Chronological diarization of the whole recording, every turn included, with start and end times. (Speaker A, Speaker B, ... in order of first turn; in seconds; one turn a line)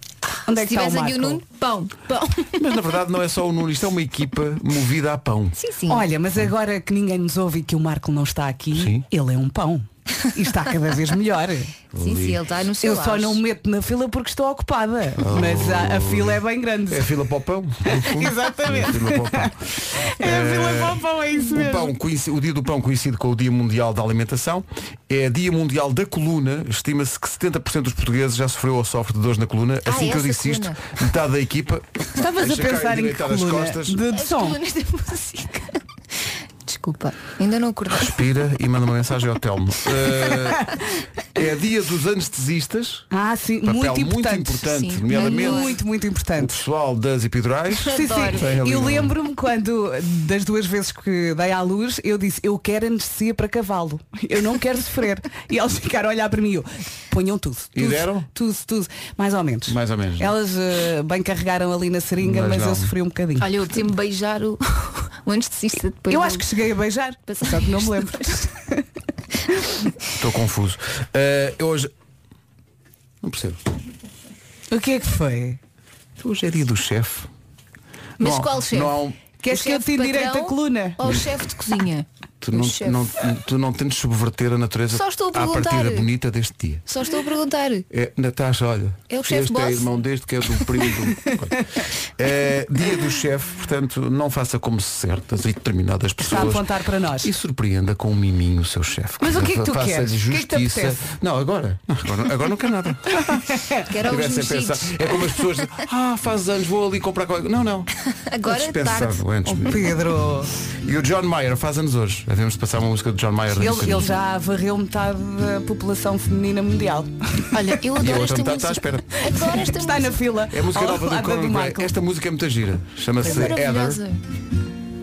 Speaker A: 0.5-1.4
Speaker B: 0.6-2.6
Speaker C: 2.6-5.6
Speaker B: 5.5-6.0
Speaker A: 5.9-11.7
Speaker C: 8.7-9.0
Speaker C: 11.9-12.4
Speaker B: 12.0-13.4
Speaker A: 12.8-17.1
Speaker C: 15.2-34.0
Speaker A: 17.9-21.9
Speaker B: 29.9-30.8
Speaker A: 32.2-34.6
Speaker B: 34.1-35.8
Speaker B: 36.6-38.2
Speaker C: 37.9-40.7
Speaker C: 41.3-43.1
Speaker A: 43.1-46.6
Speaker C: 43.6-45.8
Speaker B: 44.7-45.8
Speaker C: 46.4-49.1
Speaker B: 47.9-48.5
Speaker A: 47.9-63.5
Speaker C: 57.7-58.3
Speaker C: 59.7-60.3
Speaker C: 62.2-62.9
Speaker B: 63.4-66.5
Speaker A: 66.1-68.8
Speaker B: 67.3-68.1
Speaker C: 70.2-71.9
Speaker C: 73.2-73.6
Speaker A: 74.7-75.6
Speaker C: 76.2-77.3
Speaker B: 78.2-78.9
Speaker C: 78.2-79.2
Speaker A: 79.4-81.0
Speaker B: 79.5-83.1
Speaker C: 82.4-86.8
Speaker B: 84.9-86.1
Speaker B: 86.9-87.8
Speaker C: 87.9-91.7
Speaker B: 89.1-89.9
Speaker C: 92.2-107.9
Speaker A: 96.2-97.3
Speaker A: 99.2-101.0
Speaker B: 103.9-105.3
Speaker B: 108.3-109.2
Speaker C: 108.4-109.9
Speaker A: 109.5-110.5
Speaker C: 110.8-114.2
Speaker A: 113.6-117.4
Speaker B: 113.7-114.0
Speaker B: 117.5-120.2
Speaker C: 118.0-119.2
Speaker A: 119.3-121.9
Speaker C: 120.5-124.0
Speaker B: 123.2-124.2